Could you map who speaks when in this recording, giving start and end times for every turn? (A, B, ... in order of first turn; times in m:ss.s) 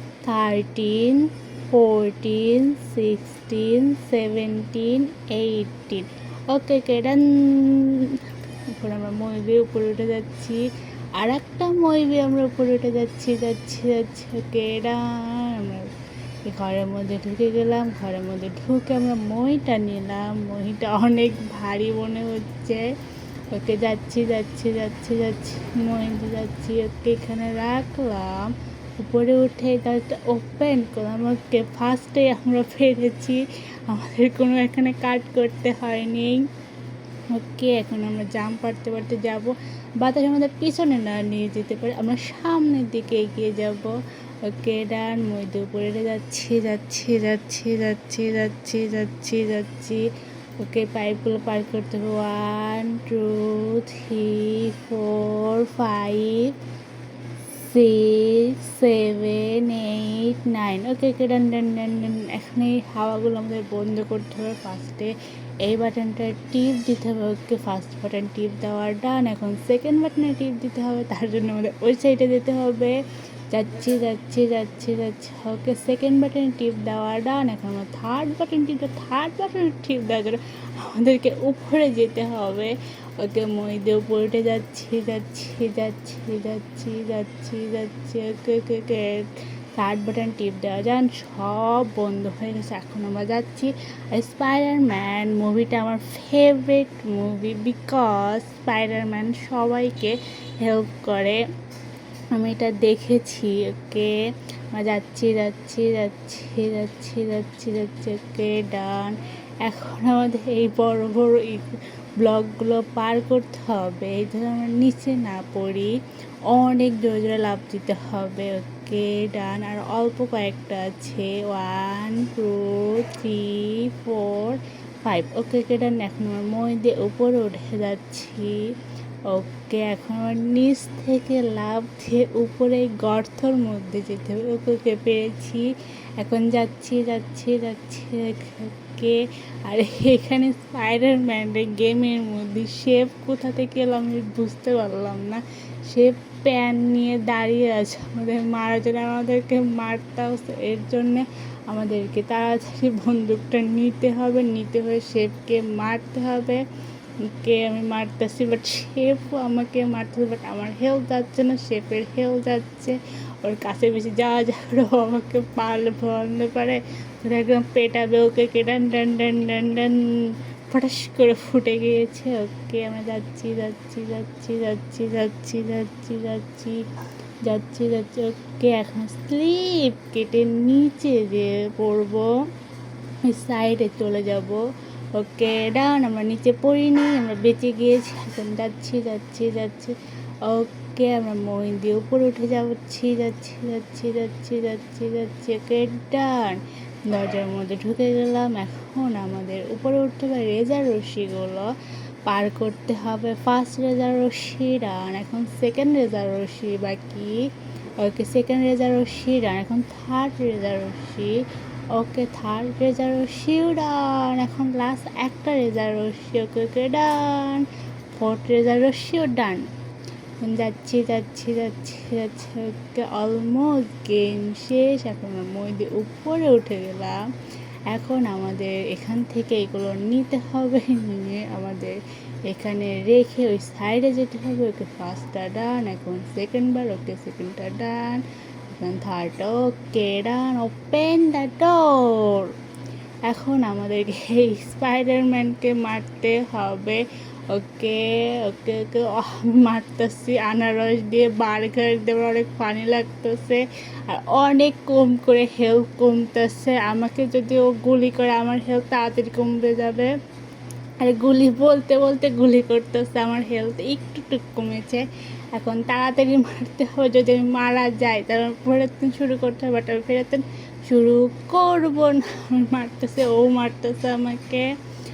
0:00.2-0:15.9 A
0:16.4-0:22.9 A
0:23.5-0:36.5 A
0:37.3-0:50.1 A
0:50.6-0:56.5 A
0:57.6-1:05.1 A
1:05.6-1:13.0 A
1:13.5-1:41.4 A
1:42.3-1:44.2 A
1:44.7-1:56.0 A
1:56.5-2:08.6 A
2:09.3-2:15.7 A
2:16.2-2:36.6 A
2:37.2-2:56.8 A
2:57.4-3:02.3 A
3:03.2-3:04.6 A
3:05.1-3:21.7 A
3:22.3-3:39.7 A
3:40.4-3:47.2 A
3:47.9-4:02.5 A
4:03.2-4:20.1 A
4:21.0-4:34.7 A